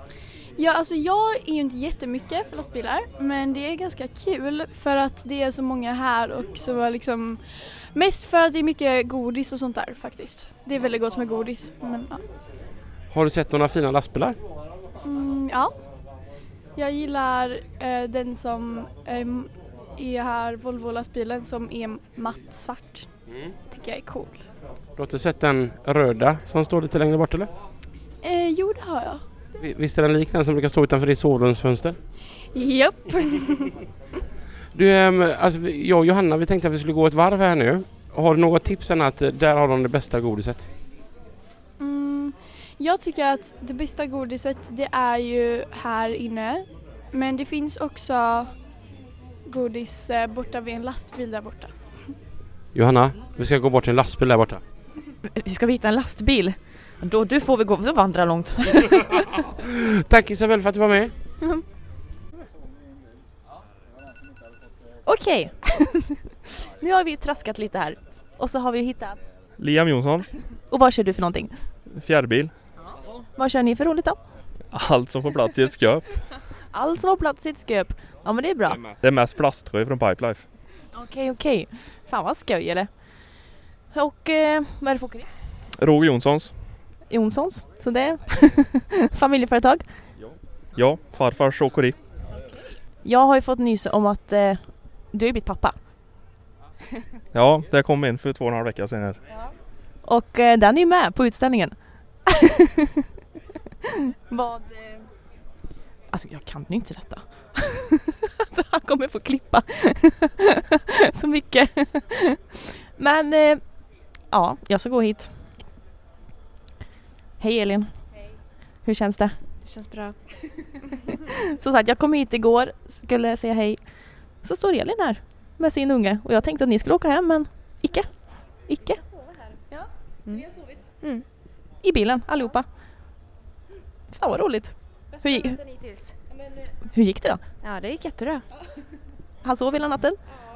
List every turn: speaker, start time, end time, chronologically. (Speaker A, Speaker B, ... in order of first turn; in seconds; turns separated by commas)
Speaker A: 0.6-12.2, Speaker B: 13.1-14.4, Speaker A: 15.0-15.7, Speaker A: 16.8-23.1, Speaker A: 23.7-24.4, Speaker B: 25.0-27.5, Speaker A: 28.2-29.2, Speaker B: 29.6-32.0, Speaker A: 32.5-33.7, Speaker B: 34.7-40.7, Speaker A: 41.8-48.5, Speaker A: 49.5-51.7, Speaker B: 52.8-54.6, Speaker C: 55.3-59.2, Speaker B: 59.6-61.1, Speaker C: 65.1-66.2, Speaker C: 66.8-69.2, Speaker D: 69.6-70.2, Speaker C: 70.7-71.5, Speaker D: 71.9-72.5, Speaker C: 73.4-74.2, Speaker D: 74.7-76.3, Speaker C: 76.7-78.8, Speaker D: 78.7-80.4, Speaker C: 80.9-82.9, Speaker C: 83.9-85.3, Speaker D: 85.8-86.5, Speaker C: 87.1-89.8, Speaker D: 90.2-92.0, Speaker C: 93.0-95.8, Speaker D: 97.3-99.2, Speaker C: 100.0-101.8, Speaker C: 102.3-103.0, Speaker C: 104.3-104.9, Speaker C: 106.1-113.6, Speaker C: 114.3-115.3, Speaker C: 117.4-117.9, Speaker C: 118.8-119.3, Speaker E: 119.6-120.1, Speaker C: 121.1-123.8, Speaker C: 124.4-128.1, Speaker C: 128.7-129.0, Speaker E: 130.2-131.2, Speaker C: 131.8-132.7, Speaker C: 134.1-135.6, Speaker E: 135.2-136.1, Speaker C: 136.9-137.4, Speaker E: 137.6-138.4, Speaker C: 139.4-140.2